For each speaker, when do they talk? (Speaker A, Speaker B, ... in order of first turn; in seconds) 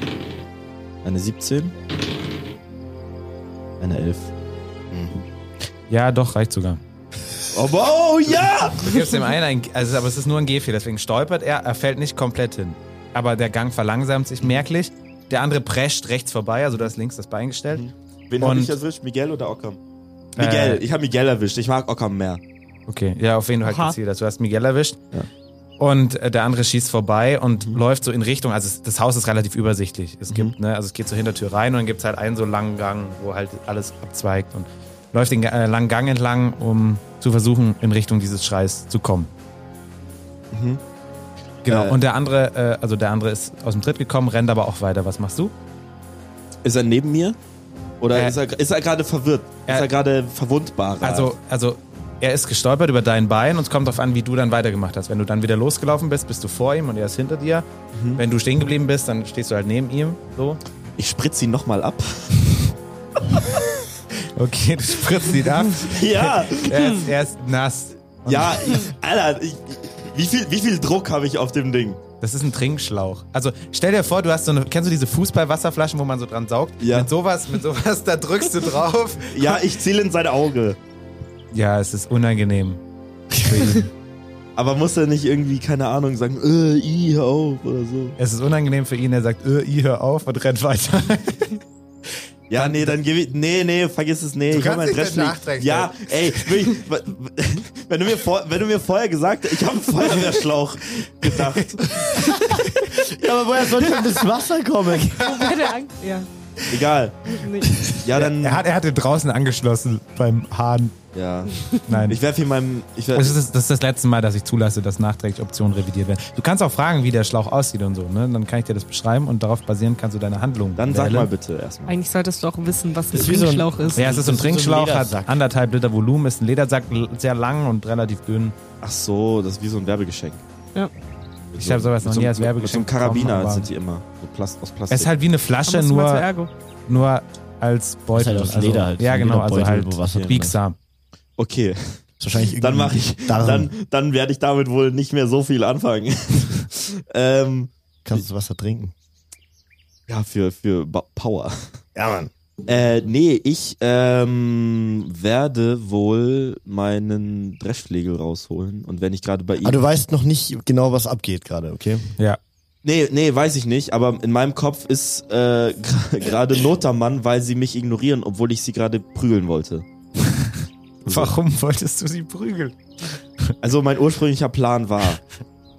Speaker A: 1.0-1.7, 3.8-4.3, 7.5-9.2, 17.7-19.8, 20.4-22.4, 40.5-40.8, 41.6-42.0, 46.6-47.4, 48.0-51.3, 57.9-58.2, 61.0-62.6, 65.8-67.0, 68.2-72.0, 76.8-77.1, 79.3-80.8, 84.6-88.2, 92.5-102.4, 106.7-108.6, 111.1-113.4, 120.8-122.0, 128.8-130.4, 131.5-135.1, 141.4-148.2, 150.1-151.7, 152.7-159.8, 162.8-169.8, 171.0-171.3, 173.6-175.2
Speaker B: 4.9-5.2, 102.8-105.2, 123.1-125.3, 138.1-140.6, 142.2-143.7, 148.0-148.9, 151.9-152.3, 159.6-162.1
Speaker C: 5.9-6.8, 8.8-17.9, 18.4-18.7, 20.4-20.8, 22.9-25.0, 25.8-39.3, 41.6-45.5, 51.0-60.6, 64.3-68.8, 72.2-79.6, 81.5-83.9, 88.2-91.5, 92.5-93.0, 94.5-96.8, 101.3-102.9, 108.1-111.0, 111.9-112.2, 113.1-121.3, 124.0-128.6, 131.6-133.7, 134.9-136.3, 136.9-140.8, 171.1-172.8
Speaker D: 23.6-23.9, 105.2-106.3, 107.3-107.7, 121.9-124.1, 135.7-136.5